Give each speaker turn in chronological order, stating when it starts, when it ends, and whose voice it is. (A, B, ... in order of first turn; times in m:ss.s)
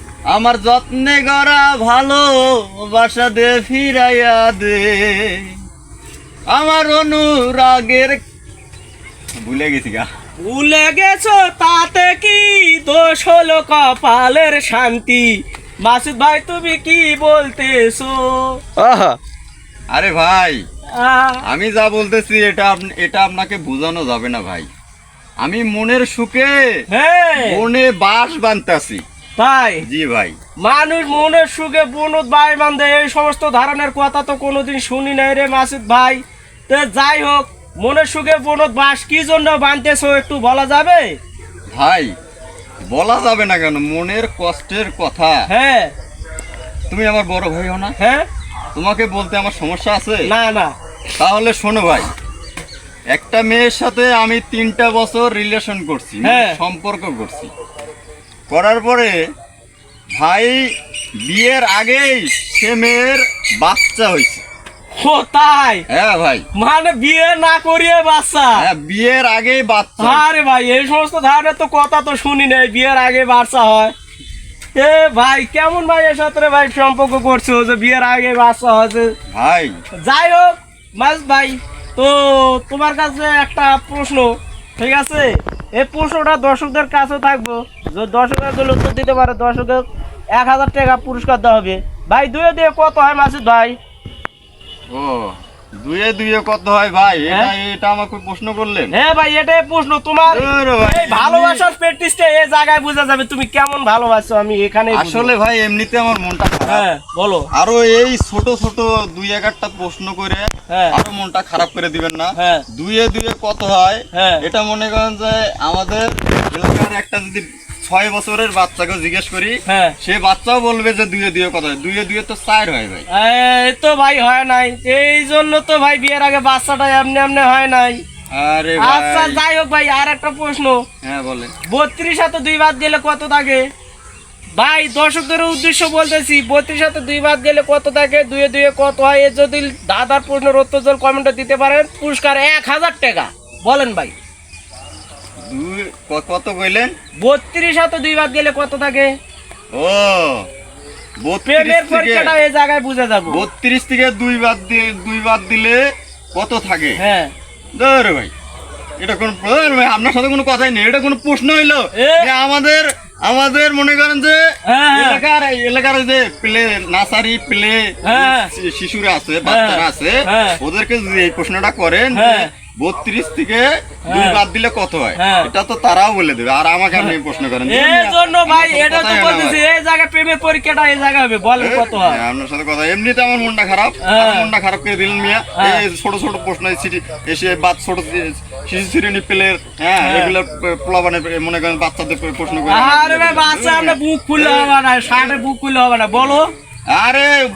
0:00.3-0:05.5 A
0:06.5-0:08.2 A
0:09.4-0:10.0 A
0:10.4-0:19.2 B
0:19.9-0:20.6 A
0:21.0-0:21.4 B
0:21.4-0:24.7 A
0:25.4-0:26.7 A
0:26.9-0:27.6 B
0:27.4-0:29.0 A
0:29.4-0:29.8 B
0:29.8-0:30.4 A
0:30.6-0:41.2 B
0:41.7-0:42.1 A
0:42.8-0:45.4 A
0:45.5-0:45.9 B
0:46.9-0:47.9 A
0:48.0-0:48.3 B
0:48.7-0:50.3 A
0:50.3-0:50.7 B
0:51.2-0:52.1 A
0:53.1-0:57.5 A
0:56.2-0:56.6 B
0:58.5-0:59.2 A
1:00.1-1:00.6 A
1:01.2-1:04.4 A
1:05.0-1:05.8 B
1:05.9-1:06.5 A
1:06.5-1:08.6 B
1:08.6-1:10.2 A
1:10.0-1:13.9 B
1:14.7-1:19.1 B
1:19.3-1:19.7 A
1:20.0-1:33.8 B
1:34.9-1:38.9 A
1:38.9-1:45.3 B
1:40.3-1:41.6 A
1:44.9-1:46.9 A
1:46.6-1:47.5 B
1:47.5-2:03.0 A
1:50.7-1:51.0 B
1:52.4-1:52.6 B
1:54.1-1:54.4 B
1:59.7-2:00.0 B
2:03.1-2:08.0 B
2:08.3-2:09.4 A
2:08.8-2:10.8 B
2:11.0-2:11.5 A
2:11.6-2:13.7 B
2:14.6-2:24.1 B
2:25.4-2:26.9 A
2:27.2-2:29.1 B
2:29.7-2:30.5 A
2:31.2-2:32.4 A
2:31.4-2:33.4 B
2:33.3-2:35.8 A
2:36.3-2:37.0 A
2:37.0-2:37.3 B
2:37.8-2:38.3 A
2:39.0-2:59.6 A
2:41.9-2:42.3 B
2:44.7-2:45.2 B
2:48.0-2:48.5 B
2:49.4-2:50.6 B
2:52.1-2:52.5 B
2:54.1-2:54.4 B
2:55.2-2:55.5 B
2:57.7-3:02.2 B
3:01.6-3:15.4 A
3:04.0-3:04.5 B
3:05.6-3:05.8 B
3:10.0-3:10.3 B
3:12.7-3:16.5 B
3:16.9-3:17.4 A